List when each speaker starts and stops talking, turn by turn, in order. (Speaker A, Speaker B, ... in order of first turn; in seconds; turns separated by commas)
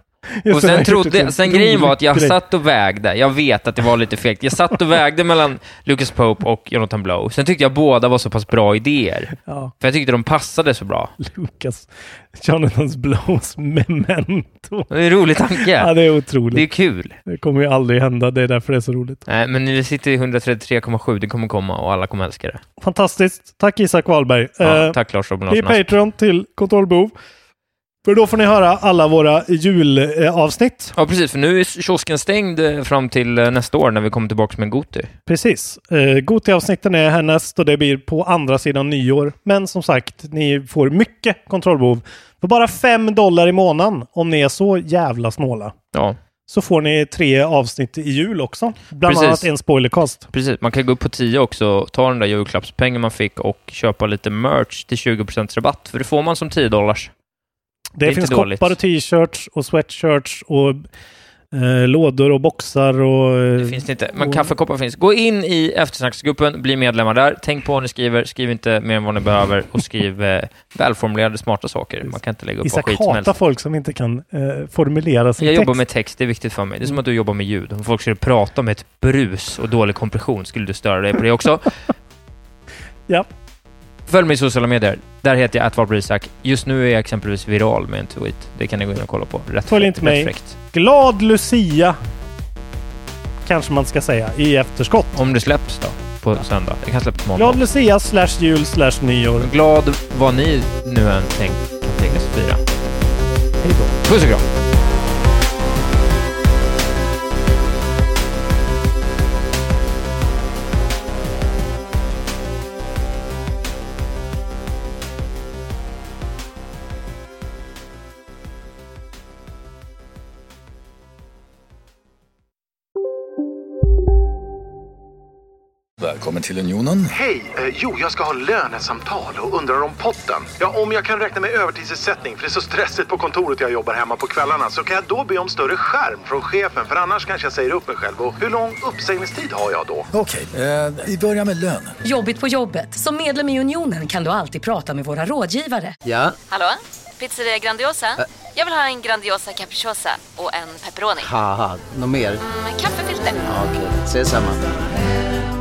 Speaker A: 0.4-2.4, Speaker B: 0.5-11.1, Speaker A: 9.5-9.7, Speaker A: 11.2-14.9, Speaker B: 14.9-15.9, Speaker A: 15.5-16.7, Speaker B: 16.5-17.2, Speaker A: 17.2-19.2, Speaker B: 19.2-22.6, Speaker A: 22.8-27.1, Speaker B: 24.6-25.9, Speaker A: 28.0-30.9, Speaker B: 30.9-35.1, Speaker A: 35.3-45.8, Speaker A: 46.5-50.3, Speaker B: 49.0-49.5, Speaker B: 50.3-57.1, Speaker A: 58.0-60.8, Speaker B: 58.0-58.7, Speaker A: 61.5-64.5, Speaker B: 63.6-73.3, Speaker A: 72.1-75.8, Speaker B: 75.4-81.7, Speaker B: 84.1-90.6, Speaker A: 89.7-92.0, Speaker A: 93.4-95.2, Speaker B: 95.1-97.6, Speaker A: 97.3-99.5, Speaker B: 99.4-102.6, Speaker A: 103.6-103.9, Speaker B: 103.9-104.4, Speaker C: 126.0-127.1, Speaker D: 127.1-140.1, Speaker C: 140.1-141.9, Speaker E: 142.0-146.0, Speaker F: 146.0-146.4, Speaker G: 146.5-151.3, Speaker F: 151.2-152.4, Speaker G: 152.4-153.5, Speaker F: 153.5-154.6